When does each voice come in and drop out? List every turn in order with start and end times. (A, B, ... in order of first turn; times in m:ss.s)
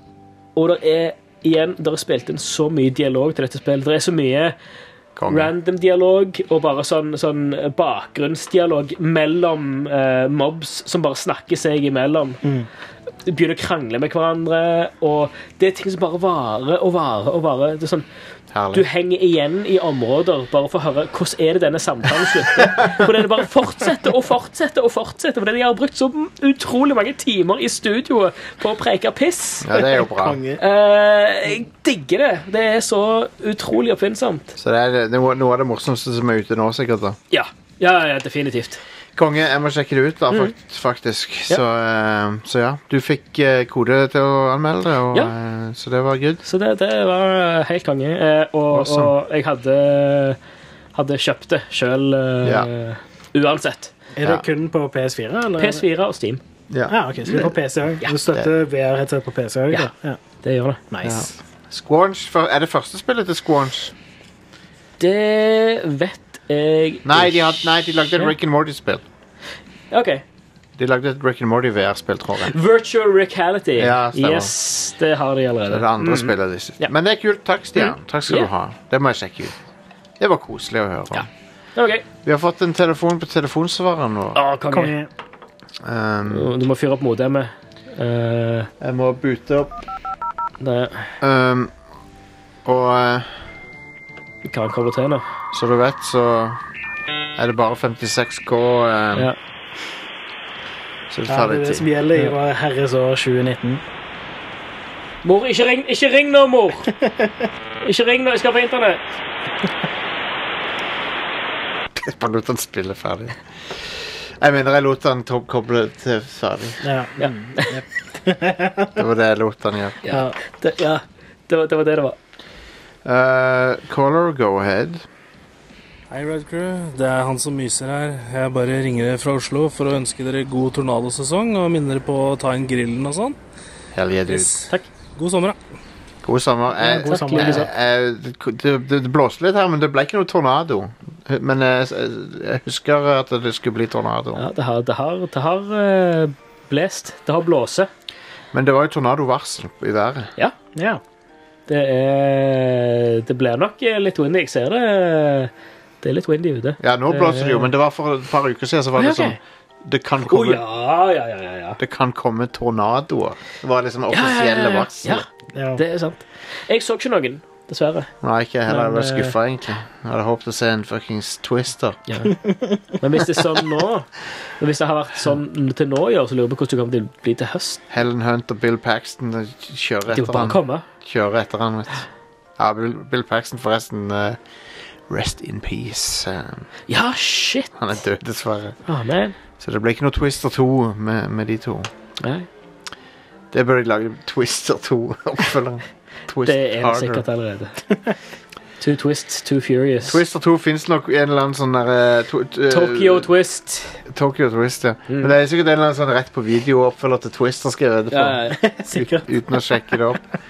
0:00.5-0:04.5 A
0:05.2-0:05.5 B
0:05.3-0:12.4 A
0:13.2-0:18.0 A
0:18.5-0:18.8 B
0:18.7-0:30.0 A
0:29.6-0:30.4 B
0:30.1-0:30.6 C
0:30.6-0:34.5 A
0:34.6-0:37.2 B
0:37.3-0:38.8 A
0:39.2-0:46.4 B
0:46.4-0:50.4 A
0:48.7-0:49.1 B
0:50.9-0:53.9 A
0:52.4-0:52.7 B
0:54.2-0:55.8 C
0:55.6-0:56.4 A
0:56.7-0:57.5 B
0:56.9-1:00.2 C
1:00.4-1:00.8 A
1:00.9-1:01.4 C
1:01.0-1:03.9 B
1:05.0-1:07.4 A
1:07.0-1:09.0 B
1:09.9-1:10.2 A
1:10.8-1:12.5 B
1:12.4-1:16.9 A
1:13.8-1:14.5 B
1:15.7-1:19.5 B
1:17.8-1:18.5 A
1:20.2-1:21.3 B
1:21.1-1:22.0 A
1:22.2-1:24.4 B
1:24.3-1:24.9 A
1:24.7-1:25.1 C
1:25.8-1:26.5 B
1:26.3-1:28.7 A
1:28.8-1:29.8 B
1:30.6-1:31.1 A
1:31.2-1:31.7 B
1:32.6-1:33.4 B
1:34.4-1:35.2 A
1:35.5-1:36.6 B
1:37.4-1:39.3 B
1:41.1-1:41.8 B
1:41.3-1:43.8 C
1:45.2-1:46.9 A
1:47.0-1:47.5 C
1:47.8-1:49.0 A
1:52.0-1:56.8 B
1:56.8-1:59.0 C
1:57.2-1:57.8 A
1:59.0-2:00.0 B
2:00.0-2:02.2 A
2:00.1-2:00.3 C
2:03.0-2:05.0 B
2:06.1-2:13.4 D
2:13.9-2:14.6 B
2:14.3-2:15.6 D
2:16.2-2:24.4 B
2:16.8-2:17.7 C
2:17.0-2:17.7 A
2:24.4-2:27.9 A
2:28.5-2:30.3 B
2:30.8-2:31.0 C
2:31.7-2:35.5 A
2:36.0-2:37.6 A
2:36.8-2:40.6 B
2:39.0-2:39.4 A
2:40.2-2:41.8 A
2:41.8-2:45.2 B
2:44.1-2:48.1 A
2:45.5-2:45.8 C
2:48.2-2:52.0 B
2:48.7-2:49.3 A
2:52.1-2:57.8 A
2:52.3-2:52.8 C
2:57.9-3:02.0 B
3:00.1-3:00.8 A
3:02.6-3:04.4 B
3:05.0-3:06.7 B
3:06.9-3:07.8 A
3:07.8-3:08.8 B
3:08.8-3:09.4 A
3:09.6-3:11.9 B
3:12.2-3:12.5 A
3:13.5-3:17.2 B
3:16.4-3:17.9 A
3:18.8-3:20.2 A
3:20.0-3:23.3 B
3:22.7-3:24.0 A
3:24.0-3:30.2 B
3:28.1-3:28.6 A
3:28.6-3:29.3 C